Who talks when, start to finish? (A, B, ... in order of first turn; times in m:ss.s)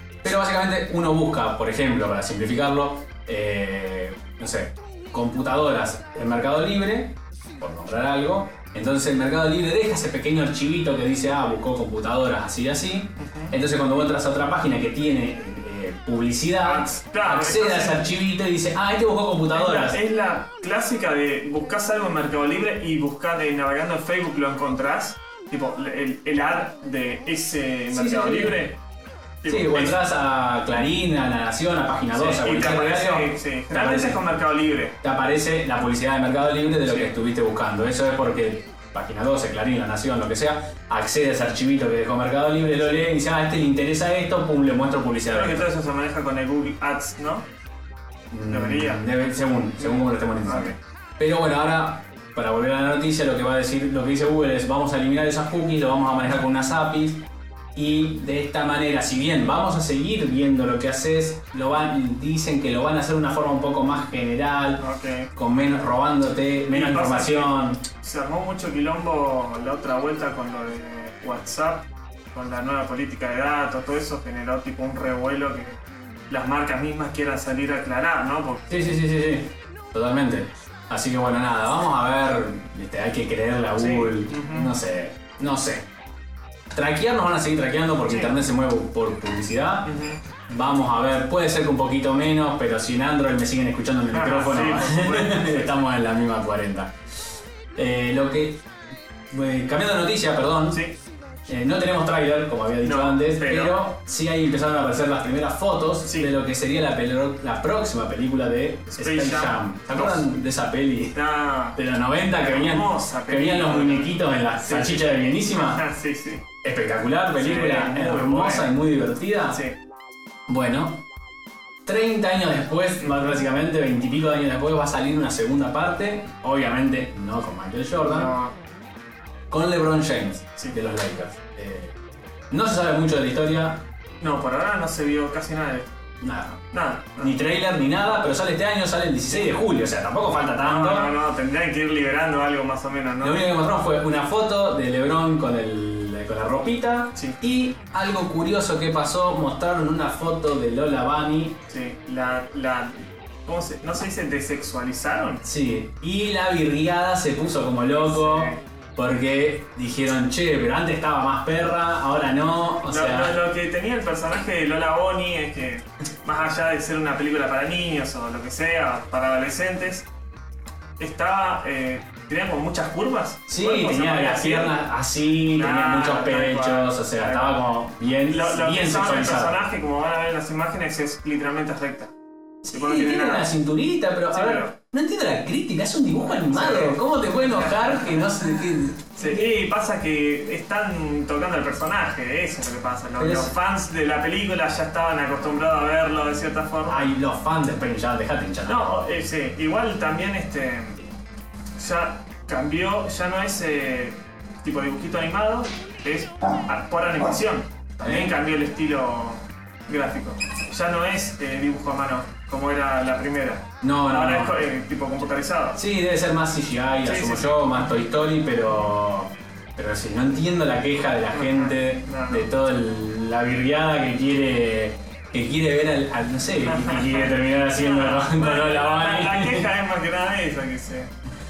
0:00.2-0:20.0 A
0:13.2-0:13.6 B
0:16.6-0:18.0 B
0:19.5-0:28.8 B
0:27.9-0:28.6 A
0:29.4-0:30.0 B
0:29.5-0:34.2 A
0:32.1-0:35.0 B
0:35.0-0:45.7 A
0:36.8-0:37.1 B
0:45.3-0:47.4 B
0:48.3-1:04.8 A
0:48.5-0:49.0 B
0:49.8-0:50.7 B
1:04.8-1:05.3 B
1:05.3-1:07.8 A
1:06.7-1:15.8 B
1:16.3-1:18.7 B
1:18.7-1:25.8 A
1:23.8-1:24.7 B
1:26.7-1:29.9 A
1:28.0-1:28.3 B
1:29.8-1:30.2 B
1:30.5-1:37.0 A
1:34.1-1:35.7 B
1:37.8-1:38.6 A
1:39.3-1:40.8 A
1:41.5-1:51.2 A
1:42.8-1:43.8 B
1:46.0-1:46.3 B
1:48.9-1:50.2 B
1:51.1-1:51.8 B
1:51.7-1:55.8 A
1:52.4-1:56.4 B
1:56.6-1:59.6 A
1:57.4-1:58.7 B
2:00.5-2:01.0 A
2:01.8-2:08.3 A
2:03.0-2:03.4 B
2:08.0-2:08.5 B
2:09.5-2:11.9 A
2:12.5-2:13.8 A
2:14.2-2:16.0 B
2:16.2-2:16.7 A
2:16.7-2:17.3 B
2:17.2-2:21.1 A
2:20.6-2:23.4 B
2:23.2-2:31.6 A
2:31.7-2:35.4 B
2:35.4-2:43.4 A
2:38.0-2:38.6 B
2:42.9-2:50.0 B
2:51.0-2:54.8 B
2:53.5-2:59.6 A
2:55.5-2:57.6 B
2:58.3-3:02.1 B
3:02.6-3:09.5 A
3:02.7-3:03.5 B
3:04.3-3:04.7 B
3:06.4-3:08.2 B
3:09.2-3:17.1 B
3:13.2-3:13.5 A
3:16.9-3:18.9 A
3:18.6-3:21.1 B
3:21.8-3:35.8 B
3:28.0-3:28.4 A
3:33.8-3:34.6 A
3:35.7-3:49.7 A
3:37.0-3:37.8 B
3:41.3-3:42.5 B
3:46.6-3:51.1 B